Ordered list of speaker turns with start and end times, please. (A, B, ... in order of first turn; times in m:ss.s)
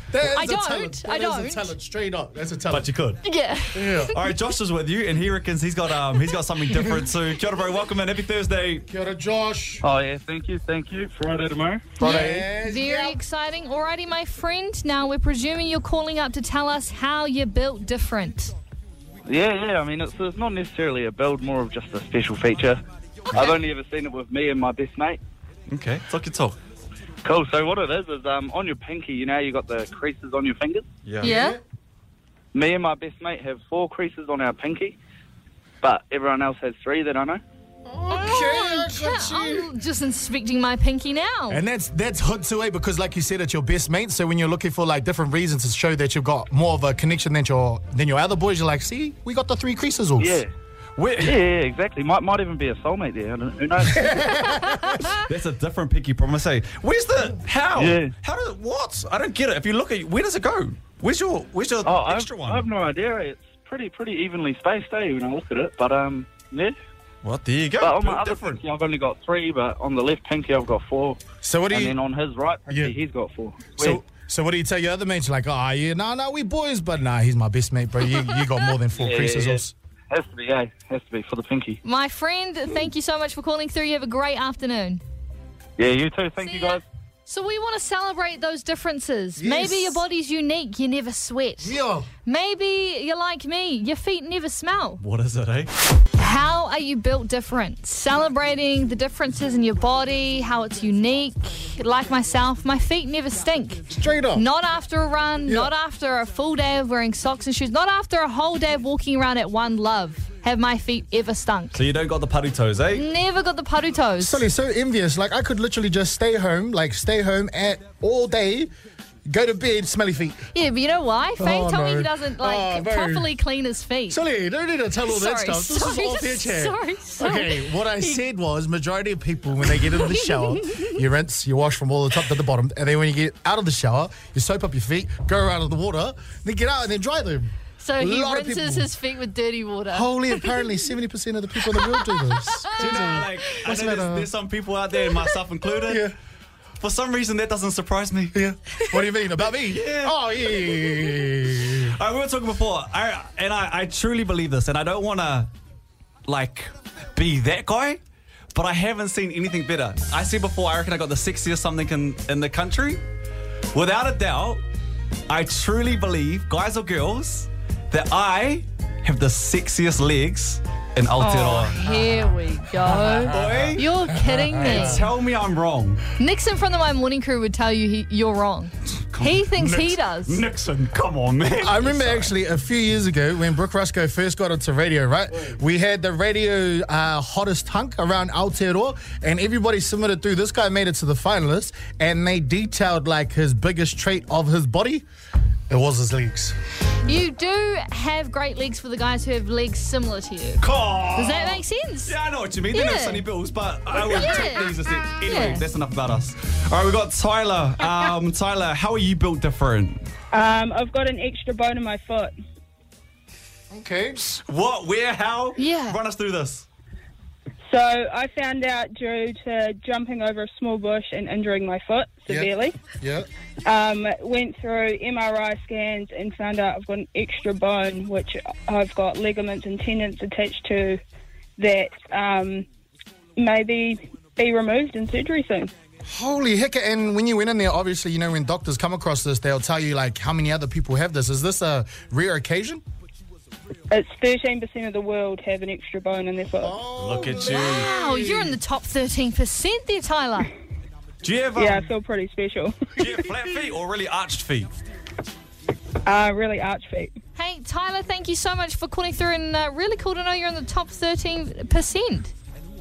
0:00.1-0:02.9 A
0:00.2-0:01.7 B
0:02.7-0:03.2 C
0:03.2-0:04.2 B
0:03.7-0:04.2 A
0:04.1-0:08.9 C
0:08.9-0:09.8 A
0:09.8-0:12.0 D
0:12.0-0:12.4 C
0:12.0-0:18.5 B
0:12.0-0:13.2 A
0:19.3-0:22.8 D
0:23.3-0:25.2 D
0:25.7-0:26.6 C
0:27.2-0:30.9 D
0:31.0-0:31.3 C
0:31.2-0:31.6 A
0:31.2-0:31.6 B
0:32.5-0:35.0 D
0:35.8-0:37.4 D
0:37.9-0:39.7 A
0:38.1-0:41.6 B
0:41.5-0:50.4 A
0:50.2-0:50.5 D
0:51.0-0:51.4 C
0:51.2-0:54.3 D
0:53.8-0:55.1 A
0:54.5-0:55.0 B
0:55.2-1:02.7 C
0:57.8-0:58.1 D
1:01.8-1:06.8 D
1:07.2-1:08.6 C
1:07.8-1:11.2 D
1:11.4-1:12.0 A
1:11.7-1:14.0 D
1:12.7-1:13.0 A
1:13.8-1:19.7 A
1:19.0-1:21.8 D
1:21.8-1:25.0 B
1:25.8-1:26.8 D
1:26.4-1:35.0 B
1:29.4-1:30.0 A
1:31.6-1:32.1 A
1:35.0-1:35.7 C
1:36.2-1:43.8 B
1:43.9-1:44.5 A
1:44.4-1:51.8 B
1:45.5-1:45.7 A
1:51.8-1:53.0 C
1:52.9-1:54.4 B
1:54.2-1:58.7 A
1:59.3-2:00.4 A
2:00.5-2:04.2 B
2:01.4-2:03.4 A
2:04.1-2:18.9 A
2:05.1-2:08.2 B
2:09.8-2:11.0 B
2:17.8-2:20.8 B
2:19.9-2:24.3 A
2:21.7-2:22.8 B
2:22.8-2:26.1 C
2:25.8-2:26.1 A
2:26.8-2:28.4 C
2:28.3-2:32.0 A
2:29.7-2:30.2 C
2:31.8-2:35.5 C
2:36.3-2:38.0 C
2:38.5-2:43.0 C
2:43.7-2:44.6 C
2:45.3-2:51.8 C
2:51.2-2:55.1 B
2:52.8-2:55.1 A
2:53.3-2:53.9 C
2:54.6-2:56.0 C
2:56.2-3:00.4 B
2:59.1-3:02.3 C
3:01.6-3:15.1 A
3:15.7-3:16.6 A
3:17.0-3:20.6 B
3:20.6-3:30.0 C
3:21.2-3:22.2 B
3:22.7-3:23.2 B
3:24.0-3:25.6 B
3:30.3-3:32.3 E
3:33.7-3:34.4 A
3:34.4-3:36.6 C
3:35.6-3:36.0 B
3:37.7-3:42.8 E
3:42.3-3:43.3 A
3:43.6-3:51.0 E
3:51.6-3:52.7 E
3:53.4-3:55.7 E
3:56.1-4:02.8 A
4:03.9-4:06.8 E
4:06.6-4:08.6 A
4:07.0-4:07.9 C
4:07.4-4:10.5 B
4:11.2-4:11.9 C
4:11.6-4:12.9 E
4:13.0-4:14.8 C
4:16.1-4:17.1 E
4:17.4-4:22.3 B